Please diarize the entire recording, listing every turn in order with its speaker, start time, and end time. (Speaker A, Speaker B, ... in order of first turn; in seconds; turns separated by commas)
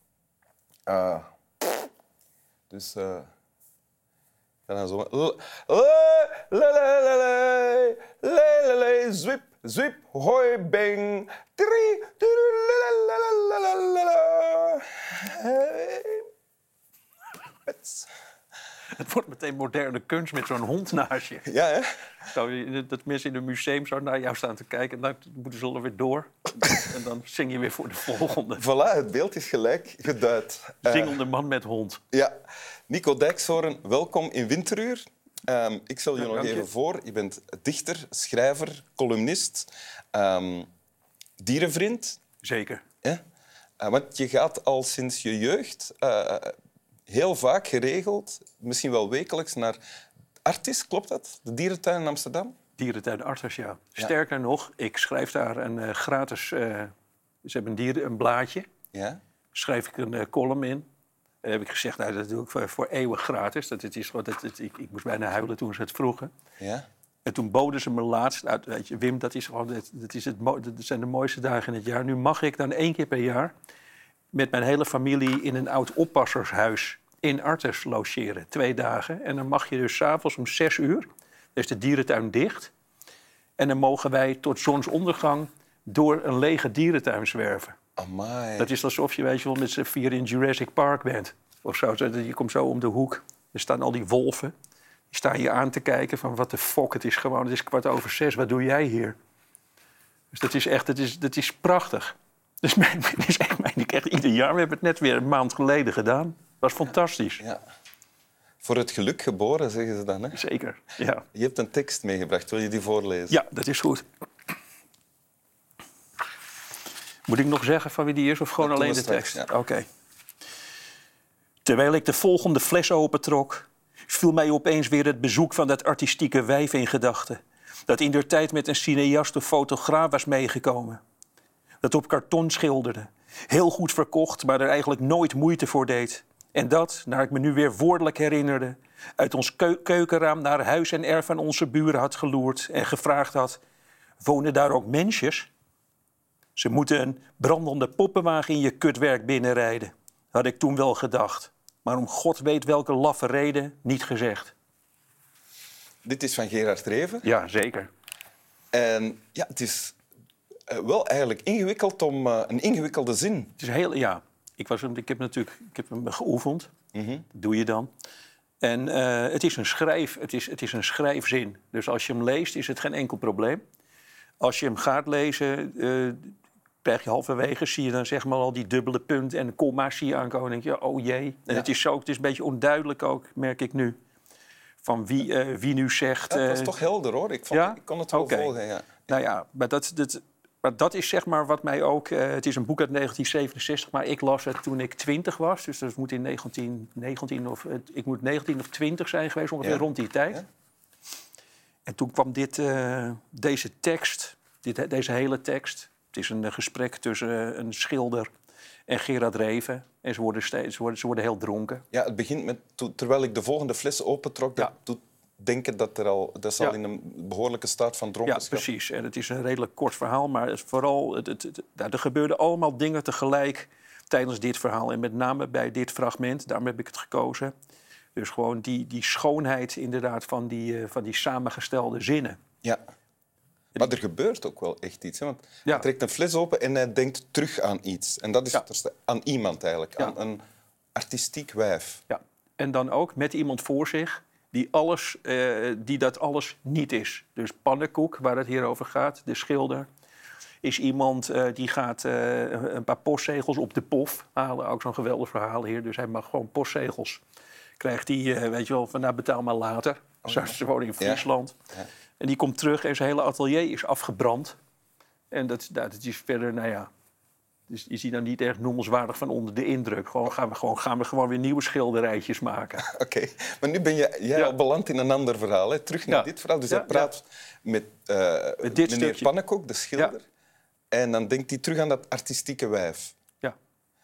Speaker A: 0.9-1.9, Speaker A: 2.7-3.3, Speaker A: 4.7-16.3, Speaker A: 17.7-18.1, Speaker B: 18.9-21.5, Speaker A: 21.4-22.0, Speaker B: 22.3-28.6, Speaker A: 28.6-31.2, Speaker B: 30.8-32.0, Speaker A: 32.9-40.7, Speaker B: 36.2-36.7, Speaker A: 41.4-42.2, Speaker B: 42.4-42.8, Speaker A: 43.8-46.5, Speaker A: 47.1-49.8, Speaker A: 50.4-52.5, Speaker B: 52.8-56.9, Speaker B: 57.4-58.7, Speaker A: 58.9-59.2, Speaker B: 59.5-60.9, Speaker B: 61.4-66.3, Speaker A: 66.6-66.9, Speaker B: 67.2-73.5, Speaker B: 74.3-82.7, Speaker B: 83.6-87.8, Speaker A: 88.0-88.7, Speaker B: 88.6-94.5, Speaker B: 95.1-99.1, Speaker B: 100.3-107.4, Speaker A: 108.6-110.4, Speaker B: 110.3-111.2, Speaker A: 111.3-113.4, Speaker B: 113.3-114.0, Speaker B: 117.3-119.8, Speaker A: 118.6-119.5, Speaker B: 121.6-131.0, Speaker B: 131.8-143.6, Speaker B: 144.2-145.5, Speaker B: 146.6-154.5, Speaker A: 156.0-157.2, Speaker B: 157.2-157.9, Speaker A: 158.7-160.0, Speaker A: 160.7-163.5, Speaker B: 163.6-166.7, Speaker A: 166.9-167.2, Speaker B: 167.3-167.9, Speaker B: 168.6-173.6, Speaker B: 174.4-183.9, Speaker B: 184.8-186.7, Speaker A: 186.3-189.1, Speaker B: 187.5-188.5, Speaker B: 189.1-200.4, Speaker A: 199.6-200.4, Speaker B: 201.8-208.3, Speaker B: 208.9-211.8, Speaker A: 211.9-218.6, Speaker B: 218.2-227.5, Speaker B: 228.1-232.4, Speaker A: 233.8-240.4, Speaker A: 240.9-242.0, Speaker B: 242.1-249.9, Speaker B: 250.6-257.2, Speaker B: 257.8-261.5, Speaker A: 260.2-261.9, Speaker B: 262.2-264.6, Speaker B: 265.3-266.9, Speaker B: 267.7-272.9, Speaker A: 272.8-280.2, Speaker B: 276.1-277.1, Speaker B: 278.6-279.3, Speaker A: 280.9-283.1